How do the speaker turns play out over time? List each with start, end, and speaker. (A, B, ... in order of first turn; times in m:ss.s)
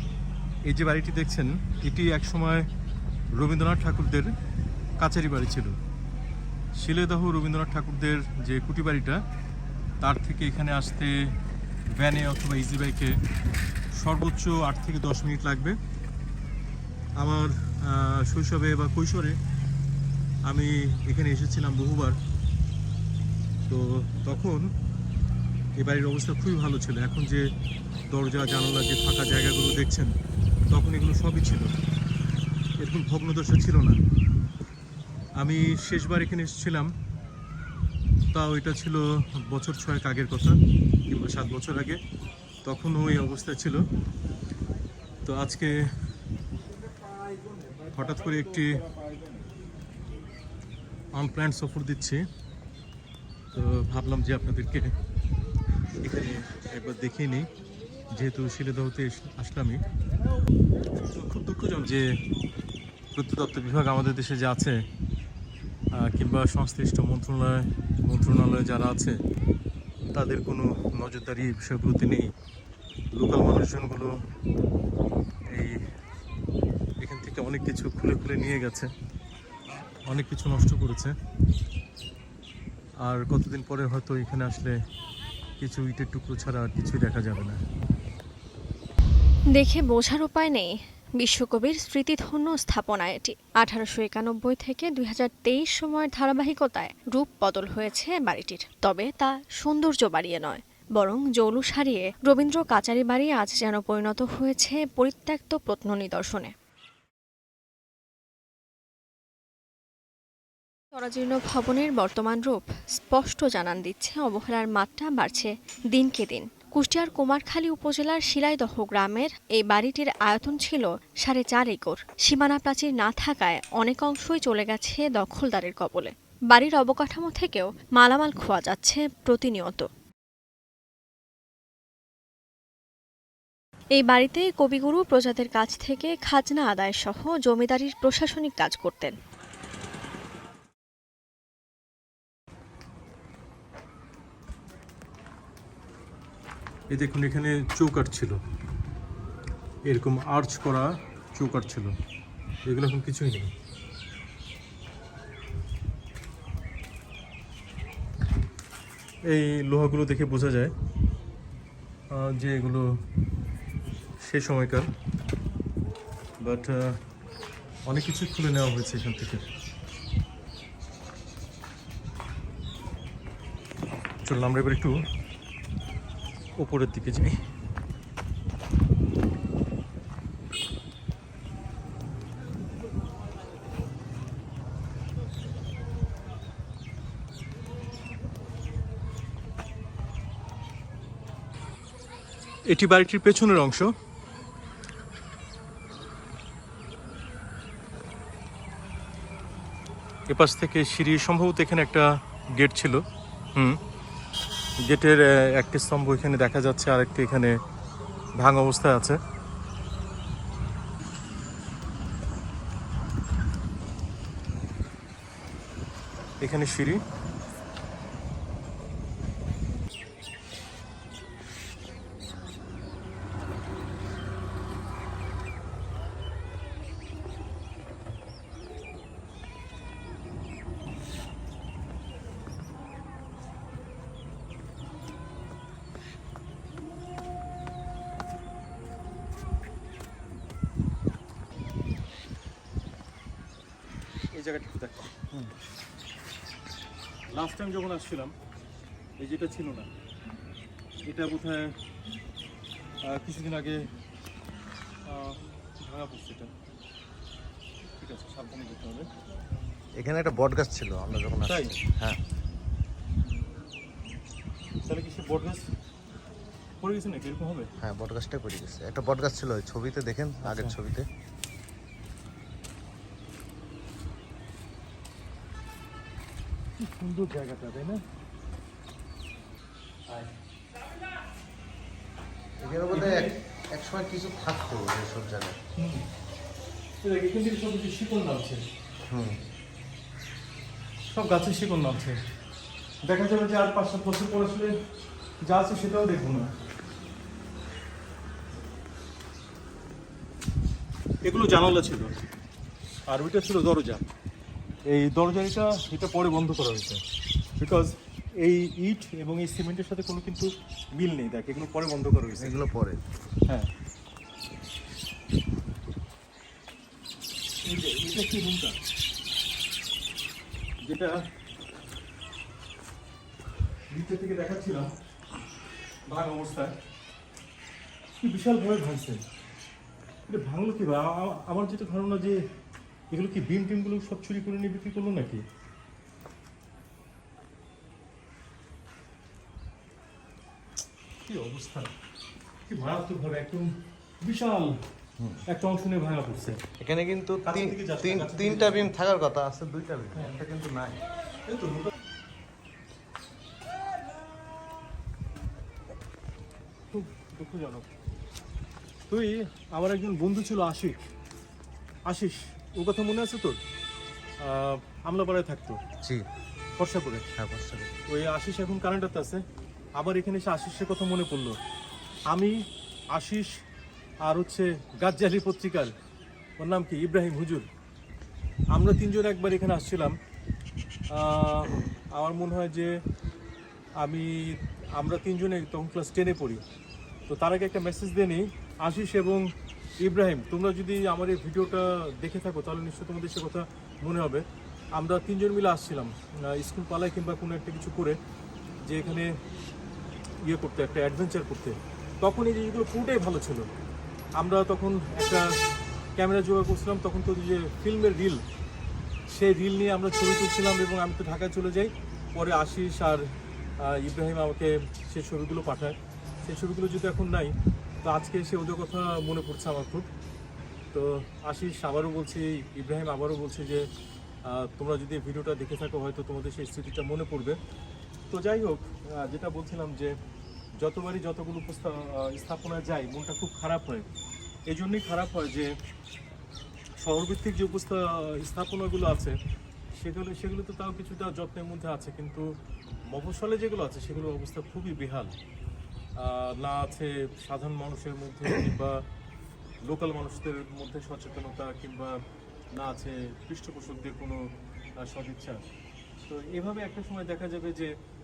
0:00.6-0:02.7 A
0:03.4-0:04.3 A
0:05.0-0:05.7 A
0:06.8-0:09.2 A
0:10.0-0:11.1 A
0:12.0-0:13.1 A
0:14.0-0:15.8 A
0:17.2-0:19.4 A
0:20.5-0:22.2 A
0:23.7-0:24.7 A
0:25.8-0:27.5 A
0:28.1-0:30.1 A
0:30.7-0:31.7 A
0:32.8-0:34.0 A
0:35.4-0:36.9 A
0:38.3-0:40.6 A
0:41.1-0:42.0 A
0:42.7-0:43.8 A
0:45.3-0:45.7 A
0:47.9-0:48.8 A
0:51.2-0:52.2 A
0:53.5-0:54.9 A
0:56.0-0:57.5 A
0:58.1-0:59.8 A
1:01.0-1:02.1 A
1:03.2-1:04.8 A
1:06.0-1:09.2 A
1:10.1-1:12.3 A
1:13.1-1:14.1 A
1:15.5-1:15.8 A
1:17.0-1:18.9 A
1:20.1-1:21.1 A
1:23.0-1:24.7 A
1:25.6-1:27.6 A
1:29.6-1:46.5 B
1:50.9-2:09.9 B
2:14.0-2:19.2 B
2:26.9-2:28.4 A
2:29.9-2:31.9 A
2:32.7-2:33.5 A
2:39.3-2:40.7 A
2:42.1-2:42.9 A
2:44.2-2:44.9 A
2:46.4-2:46.8 A
2:47.9-2:49.4 A
2:54.2-2:55.0 A
2:56.6-2:57.4 A
3:12.7-3:13.9 A
3:20.3-3:23.0 A
3:24.8-3:27.6 A
3:28.4-3:29.2 A
3:36.4-3:37.0 A
4:04.3-4:05.1 A
4:07.3-4:08.3 A
4:09.2-4:09.9 A
4:11.1-4:11.7 A
4:13.0-4:13.8 A
4:15.1-4:16.5 A
4:18.0-4:19.1 A
4:20.0-4:22.2 C
4:21.5-4:21.7 A
4:24.8-4:25.6 A
4:26.8-4:27.7 A
4:27.8-4:31.1 C
4:30.4-4:30.8 A
4:36.8-4:38.0 A
4:42.6-4:45.6 C
4:42.9-4:43.3 A
4:45.8-4:46.0 A
4:47.0-4:48.6 A
4:49.1-4:49.4 C
4:51.1-4:52.2 A
4:53.0-4:54.7 A
4:55.4-4:56.5 A
5:01.2-5:02.1 A
5:03.1-5:04.0 A
5:04.9-5:07.0 A
5:07.6-5:12.6 A
5:12.4-5:13.0 C
5:17.6-5:18.8 A
5:20.8-5:21.2 A
5:23.9-5:24.9 A
5:26.1-5:26.7 A
5:28.2-5:29.2 A
5:30.3-5:32.4 A
5:33.1-5:35.4 A
5:41.2-5:41.9 A
5:42.7-5:43.7 A
5:44.2-5:44.7 A
5:45.5-5:46.6 A
5:46.8-5:51.0 C
5:47.4-5:48.9 A
5:51.4-5:51.9 A
5:56.9-5:57.9 A
5:59.1-6:01.0 A
6:02.1-6:03.6 A
6:04.4-6:05.8 A
6:06.8-6:07.2 A
6:07.4-6:07.9 C
6:08.1-6:09.4 A
6:10.0-6:11.6 A
6:12.3-6:12.6 A
6:13.1-6:13.5 A
6:14.2-6:15.9 A
6:16.6-6:17.7 A
6:18.7-6:20.2 A
6:21.1-6:22.9 A
6:24.0-6:26.6 A
6:27.3-6:29.5 A
6:30.0-6:34.4 A
6:35.0-6:38.2 A
6:38.9-6:39.3 A
6:40.4-6:43.7 A
6:44.4-6:45.4 A
6:46.2-6:48.4 A
6:49.3-6:53.2 A
6:53.8-7:00.1 A
7:00.9-7:03.9 A
7:04.5-7:07.6 A
7:08.3-7:10.1 A
7:10.8-7:14.1 A
7:14.7-7:15.7 A
7:17.0-7:19.4 A
7:20.0-7:22.5 A
7:23.1-7:25.4 A
7:26.2-7:29.0 A
7:29.9-7:32.1 A
7:32.8-7:34.4 A
7:35.0-7:35.6 A
7:36.3-7:37.9 A